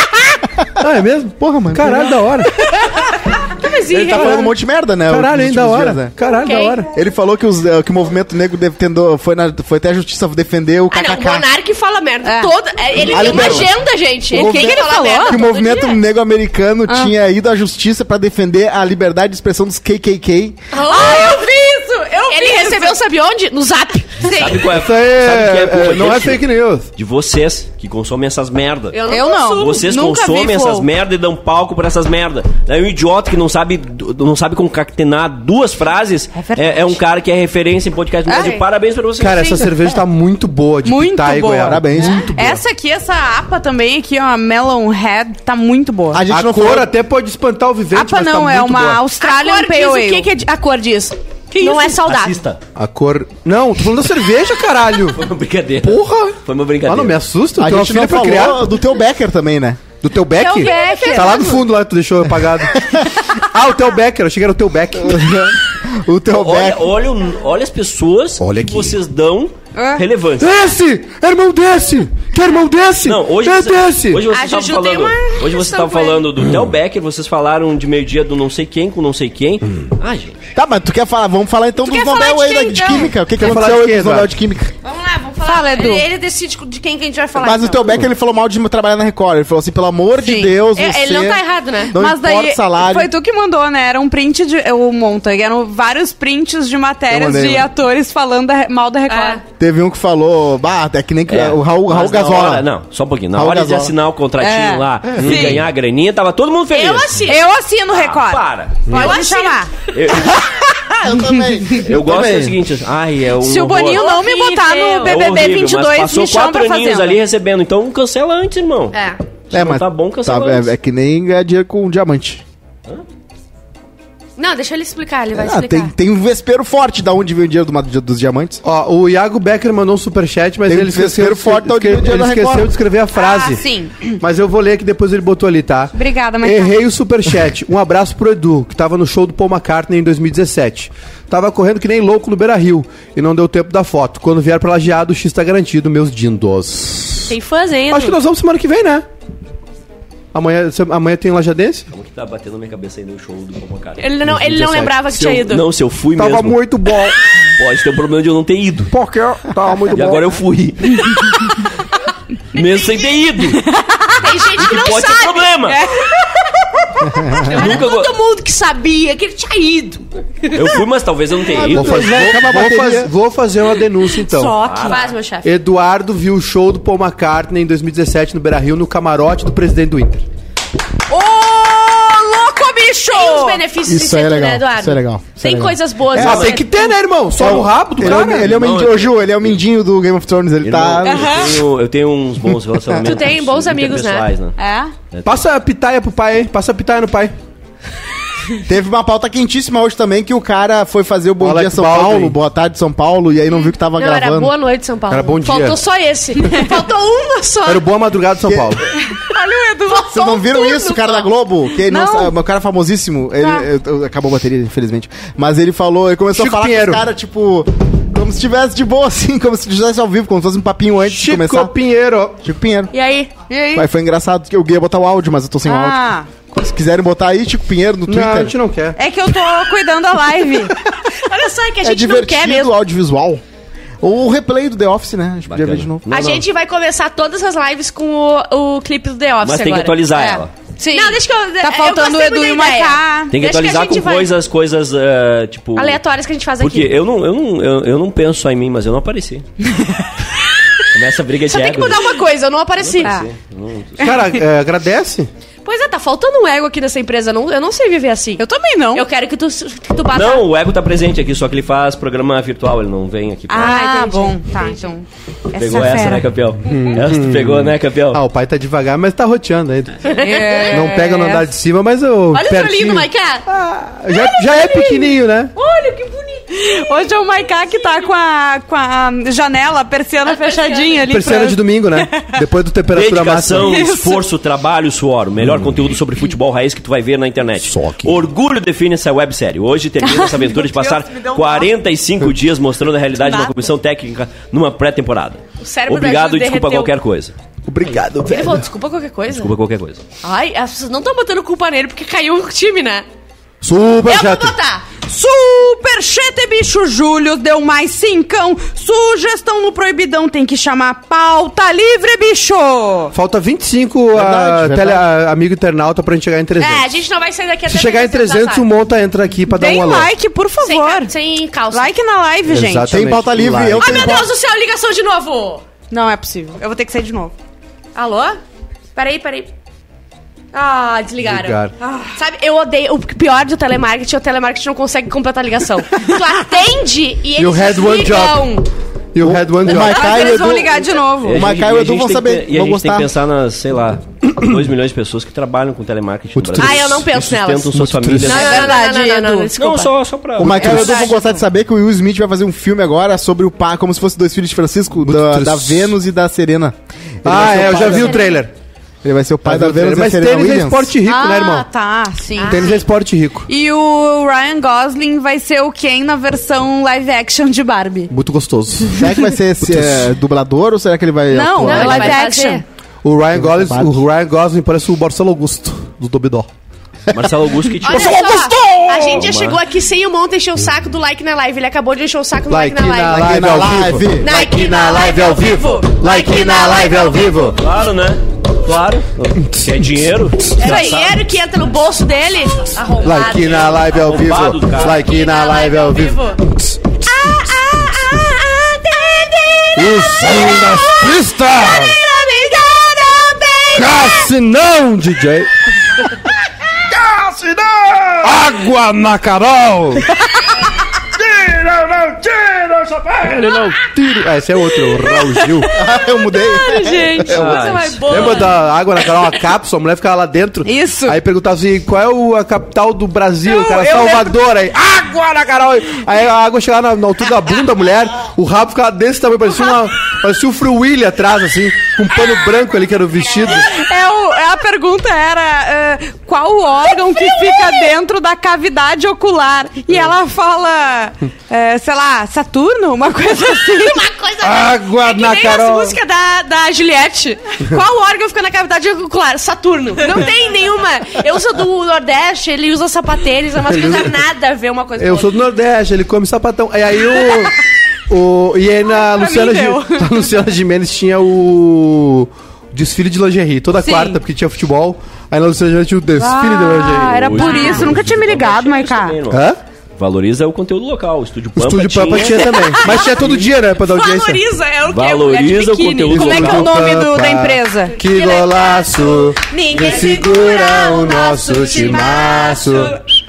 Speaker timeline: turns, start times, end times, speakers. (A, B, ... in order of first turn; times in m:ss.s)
0:00.8-0:02.6 A
0:01.4-0:02.5 B
0:02.6-0:04.5 C
0:03.9-0:04.5 A
0:03.9-0:06.1 B
0:05.1-0:06.9 A
0:06.2-0:06.8 C
0:06.9-0:11.5 B
0:10.9-0:16.0 C
0:12.2-0:12.5 D
0:13.0-0:13.8 B
0:13.2-0:13.6 D
0:14.3-0:15.4 D
0:14.3-0:20.6 B
0:16.9-0:17.1 D
0:20.7-0:21.5 C
0:20.8-0:23.0 D
0:22.1-0:24.6 C
0:24.2-0:24.6 D
0:24.2-0:26.4 E
0:24.7-0:26.9 A
0:27.0-0:29.0 E
0:28.9-0:29.9 C
0:29.1-0:30.9 D
0:29.5-0:39.7 E
0:36.3-0:37.0 D
0:38.3-0:38.6 D
0:38.3-0:38.6 C
0:39.2-0:42.6 A
0:40.8-0:46.2 D
0:41.6-0:42.3 B
0:46.1-0:46.9 B
0:46.3-0:49.0 A
0:47.9-0:50.3 D
0:49.2-0:52.4 C
0:51.6-0:51.9 D
0:51.8-0:52.6 E
0:52.7-0:55.2 A
0:55.2-0:57.2 E
0:55.8-0:58.6 A
0:57.6-0:59.8 B
1:00.0-1:05.5 A
1:00.4-1:01.6 C
1:00.4-1:01.6 D
1:02.7-1:03.0 B
1:05.0-1:06.9 B
1:06.3-1:10.6 E
1:08.4-1:09.0 A
1:09.7-1:10.0 D
1:10.4-1:14.2 A
1:13.0-1:20.4 E
1:14.3-1:16.2 C
1:20.5-1:24.7 B
1:21.9-1:23.1 D
1:21.9-1:23.0 C
1:23.4-1:24.3 A
1:24.8-1:28.0 C
1:25.4-1:26.1 D
1:27.4-1:33.1 B
1:30.2-1:30.5 D
1:30.7-1:31.9 C
1:31.9-1:39.4 D
1:37.1-1:37.7 B
1:39.1-1:39.4 C
1:39.6-1:42.7 B
1:41.3-1:47.2 E
1:43.3-1:43.9 B
1:44.4-1:45.6 D
1:46.7-1:47.4 C
1:47.2-1:49.7 D
1:47.9-1:49.0 E
1:48.9-1:49.6 C
1:49.9-1:50.4 E
1:50.9-1:52.6 B
1:51.7-1:54.1 E
1:53.4-1:57.2 D
1:53.9-1:55.2 C
1:55.0-1:59.0 E
1:58.9-1:59.2 C
1:59.5-2:00.7 E
1:59.5-2:02.4 B
2:04.4-2:05.9 C
2:05.3-2:08.6 B
2:08.6-2:13.6 A
2:10.6-2:12.7 B
2:13.1-2:14.2 D
2:14.2-2:27.3 A
2:15.9-2:16.8 D
2:27.3-2:28.2 C
2:27.9-2:29.0 A
2:30.3-2:31.9 A
2:31.9-2:34.0 E
2:34.0-2:35.6 C
2:34.2-2:35.5 A
2:35.5-2:36.6 E
2:36.2-2:37.2 A
2:37.6-2:38.9 E
2:38.9-2:40.7 A
2:39.9-2:41.4 E
2:42.5-2:43.6 E
2:43.6-2:44.3 D
2:44.2-2:45.5 C
2:44.6-2:45.8 E
2:45.7-2:46.4 D
2:47.1-2:47.4 B
2:47.3-2:50.5 C
2:47.4-2:48.1 E
2:50.5-2:52.2 E
2:51.5-2:53.1 B
2:51.7-2:54.6 A
2:54.3-2:55.0 D
2:54.6-2:55.2 E
2:54.7-2:55.5 C
2:55.4-3:00.2 A
3:01.1-3:03.6 D
3:03.0-3:06.9 C
3:03.8-3:06.5 B
3:06.1-3:08.6 A
3:06.2-3:06.6 E
3:07.4-3:11.5 B
3:08.0-3:09.6 E
3:10.6-3:14.6 E
3:11.0-3:11.6 D
3:13.0-3:14.3 C
3:14.6-3:14.9 D
3:15.1-3:15.4 E
3:15.2-3:17.3 A
3:18.6-3:24.5 B
3:21.4-3:22.3 A
3:23.9-3:27.8 C
3:25.1-3:25.8 A
3:27.6-3:28.8 A
3:28.4-3:28.8 B
3:29.1-3:30.3 D
3:29.9-3:31.3 C
3:30.1-3:41.7 B
3:31.8-3:32.3 D
3:33.4-3:33.6 D
3:36.3-3:37.0 A
3:41.1-3:42.4 A
3:42.4-3:42.9 B
3:42.9-3:43.3 C
3:43.5-3:43.8 D
3:43.7-3:48.5 B
3:45.6-3:46.3 D
3:48.1-3:49.0 A
3:49.0-3:50.7 D
3:51.2-3:52.7 C
3:51.8-3:53.4 B
3:54.0-3:56.0 B
3:55.5-3:56.4 E
3:56.1-4:04.3 C
3:59.4-4:00.5 E
4:00.2-4:03.3 D
4:03.3-4:06.0 E
4:05.8-4:07.0 C
4:06.6-4:09.4 E
4:10.9-4:12.2 E
4:11.5-4:13.2 C
4:12.8-4:14.4 E
4:14.0-4:15.3 A
4:15.6-4:20.5 C
4:18.4-4:19.1 D
4:20.1-4:23.8 E
4:23.5-4:26.3 D
4:23.5-4:24.9 C
4:25.6-4:28.2 E
4:26.6-4:30.1 A
4:30.1-4:31.0 C
4:30.1-4:31.5 D
4:30.7-4:35.5 A
4:32.3-4:33.4 C
4:34.1-4:38.1 C
4:36.5-4:42.3 D
4:40.2-4:41.1 C
4:41.1-4:43.7 A
4:42.9-4:57.3 E
4:43.6-4:44.2 D
4:45.4-4:45.7 A
4:47.6-4:48.2 A
4:50.0-4:51.6 D
4:51.2-4:51.6 C
4:53.2-4:53.5 C
4:55.6-4:56.9 C
4:57.7-4:58.7 A
4:58.2-4:59.5 C
4:59.3-5:00.0 E
5:00.2-5:03.0 C
5:03.6-5:04.6 A
5:04.0-5:04.8 C
5:05.1-5:13.1 D
5:13.1-5:17.0 A
5:14.1-5:15.1 B
5:16.6-5:18.7 C
5:17.6-5:20.1 A
5:19.5-5:21.1 D
5:20.6-5:21.9 C
5:21.7-5:23.0 D
5:22.4-5:24.2 A
5:22.9-5:24.3 B
5:23.7-5:25.6 C
5:25.9-5:27.3 D
5:27.9-5:28.4 C
5:28.9-5:29.5 C
5:30.5-5:38.6 C
5:31.2-5:31.7 A
5:31.8-5:32.2 D
5:37.3-5:40.2 A
5:39.2-5:43.1 B
5:39.7-5:41.4 D
5:41.2-5:48.8 E
5:46.4-5:47.1 A
5:46.6-5:51.2 C
5:47.7-5:48.5 A
5:48.3-5:49.5 D
5:49.6-5:51.2 E
5:50.4-5:58.3 B
5:55.0-5:55.9 A
5:57.2-5:58.5 A
5:57.3-5:58.4 C
5:59.0-6:00.9 B
5:59.4-6:01.7 A
6:01.0-6:02.8 D
6:02.4-6:02.8 C
6:02.5-6:03.5 A
6:03.5-6:08.1 D
6:08.1-6:10.1 A
6:08.9-6:12.2 B
6:11.3-6:12.6 D
6:11.6-6:12.6 C
6:13.0-6:16.5 A
6:13.3-6:14.0 B
6:17.1-6:18.3 E
6:17.8-6:23.2 C
6:17.9-6:19.2 A
6:19.1-6:19.6 E
6:22.5-6:27.6 A
6:23.1-6:24.3 B
6:24.2-6:27.6 C
6:27.5-6:31.2 E
6:29.2-6:31.0 A
6:30.6-6:33.9 C
6:33.0-6:38.1 A
6:33.8-6:35.0 E
6:34.8-6:36.4 C
6:37.1-6:44.3 C
6:39.7-6:42.0 A
6:43.7-6:46.3 A
6:46.9-6:50.0 A
6:51.2-6:55.7 A
6:55.7-6:57.4 B
6:56.3-6:58.6 C
6:57.3-6:58.3 E
6:58.0-7:13.7 A
7:00.6-7:01.2 D
7:03.5-7:04.3 D
7:13.5-7:24.1 D
7:17.2-7:17.9 C
7:23.4-7:35.4 C
7:24.4-7:26.0 A
7:33.6-7:34.3 A
7:35.0-7:37.6 A
7:38.1-7:48.0 A
7:39.1-7:40.0 D
7:43.7-7:44.2 D
7:46.2-7:49.2 D
7:47.0-7:49.4 E
7:49.3-7:49.6 A
7:50.0-7:53.5 E
7:51.6-7:54.4 A
7:53.8-7:56.7 C
7:54.9-7:56.7 E
7:56.1-8:02.9 A
7:56.1-7:58.0 D
7:58.0-8:03.0 C